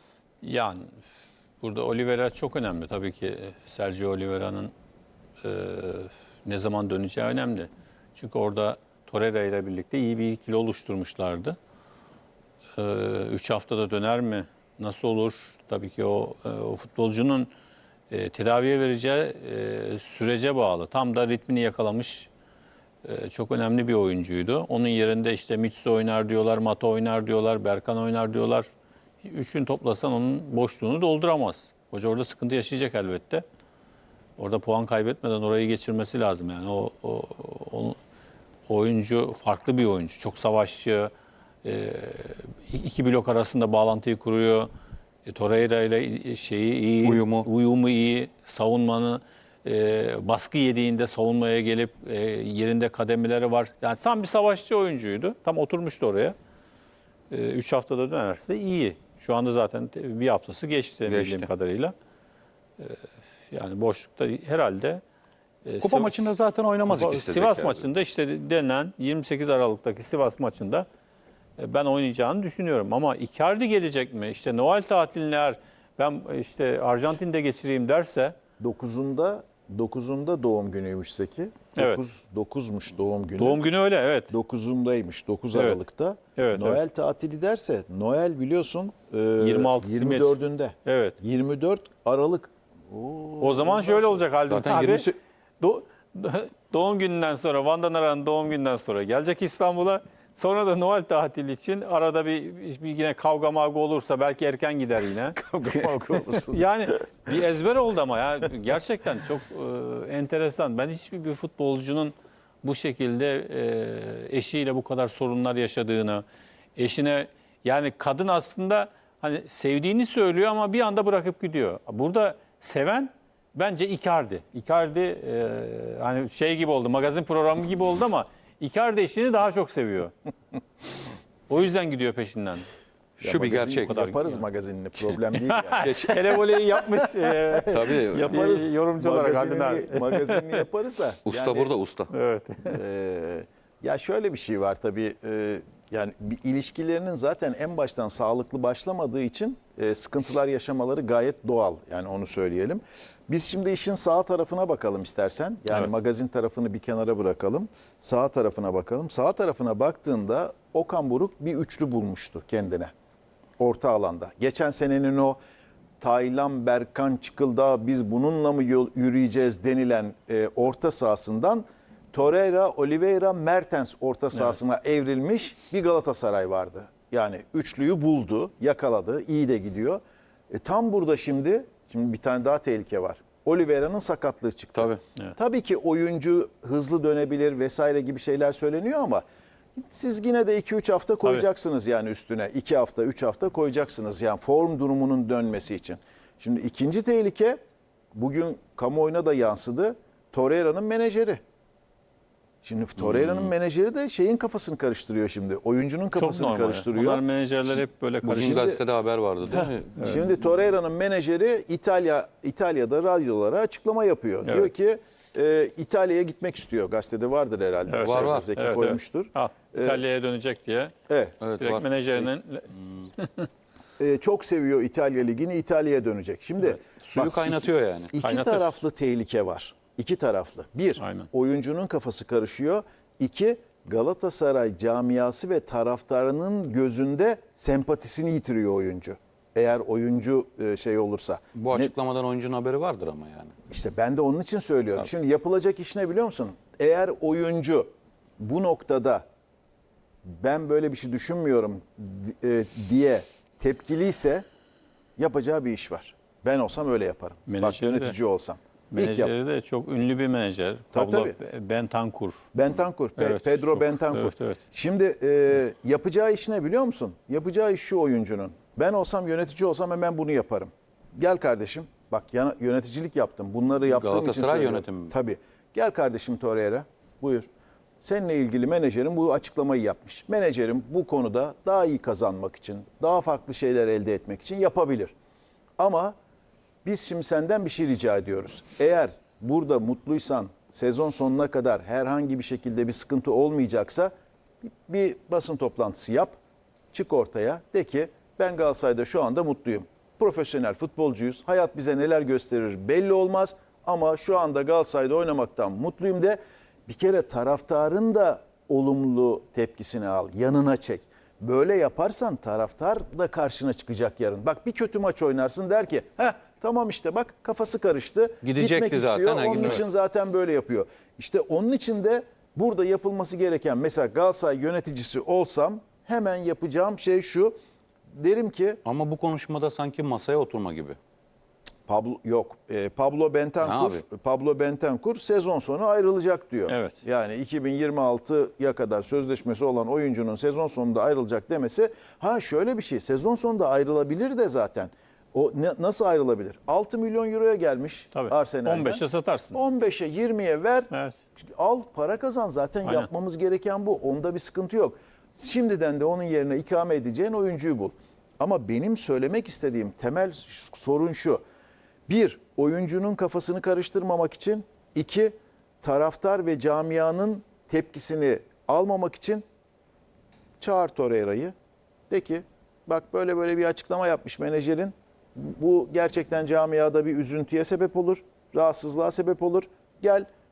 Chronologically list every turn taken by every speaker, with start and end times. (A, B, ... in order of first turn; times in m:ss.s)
0:00.4-0:00.9 A
0:01.6-0:04.7 A
0:05.4-0:11.6 A
0:12.8-0:17.5 A
0:18.1-0:22.3 A
0:23.0-0:28.7 A
0:29.2-0:33.4 A
0:34.4-0:38.0 A
0:38.7-0:41.1 A
0:41.6-0:44.7 A
0:45.3-0:56.4 A
0:47.0-0:47.5 B
0:57.3-1:01.9 A
1:01.1-1:01.5 B
1:02.8-1:05.0 A
1:05.6-1:06.3 A
1:05.8-1:07.9 B
1:06.9-1:10.9 A
1:11.6-1:18.4 A
1:18.6-1:23.7 C
1:21.8-1:22.0 A
1:23.4-1:24.3 A
1:24.3-1:34.2 C
1:25.5-1:25.8 A
1:26.4-1:26.8 A
1:29.4-1:31.2 A
1:33.4-1:35.1 A
1:34.5-1:35.2 B
1:35.6-1:56.2 A
1:45.3-1:46.7 C
1:56.8-2:10.1 A
2:11.5-2:12.7 A
2:13.2-2:14.1 B
2:13.2-2:21.7 C
2:13.8-2:14.4 A
2:15.5-2:20.6 A
2:15.8-2:16.2 B
2:17.7-2:18.4 B
2:21.3-2:22.1 B
2:22.1-2:22.8 A
2:22.7-2:42.9 C
2:43.6-2:45.4 C
2:46.0-3:00.0 C
3:00.5-3:09.2 C
3:04.8-3:05.0 B
3:09.8-3:17.6 C
3:18.1-3:21.4 C
3:22.6-3:27.2 C
3:23.0-3:23.5 B
3:26.2-3:28.7 A
3:28.2-3:28.8 C
3:28.4-3:30.2 B
3:29.5-3:40.0 C
3:34.4-3:34.7 A
3:37.9-3:40.9 A
3:38.0-3:38.5 B
3:41.1-3:41.4 C
3:41.4-3:41.8 B
3:41.6-3:43.5 A
3:44.0-4:01.9 C
3:47.0-3:48.1 B
3:48.2-3:48.8 A
3:51.0-3:51.3 A
4:01.6-4:03.5 B
4:03.7-4:09.2 C
4:10.3-4:14.4 C
4:15.2-4:19.3 C
4:17.5-4:18.2 A
4:18.9-4:22.4 A
4:20.9-4:21.4 C
4:22.5-4:37.5 C
4:23.2-4:24.6 A
4:33.9-4:35.1 B
4:38.0-4:45.1 C
4:45.8-4:46.2 C
4:46.8-4:54.1 C
4:54.6-4:56.4 C
4:56.9-5:27.6 C
5:18.4-5:19.8 B
5:28.1-5:28.8 C
5:28.8-5:31.0 B
5:31.9-6:01.4 C
5:33.6-5:34.0 B
5:36.7-5:37.0 A
5:48.1-5:49.6 A
6:02.1-6:09.4 C
6:10.6-6:11.5 C
6:12.1-6:20.3 C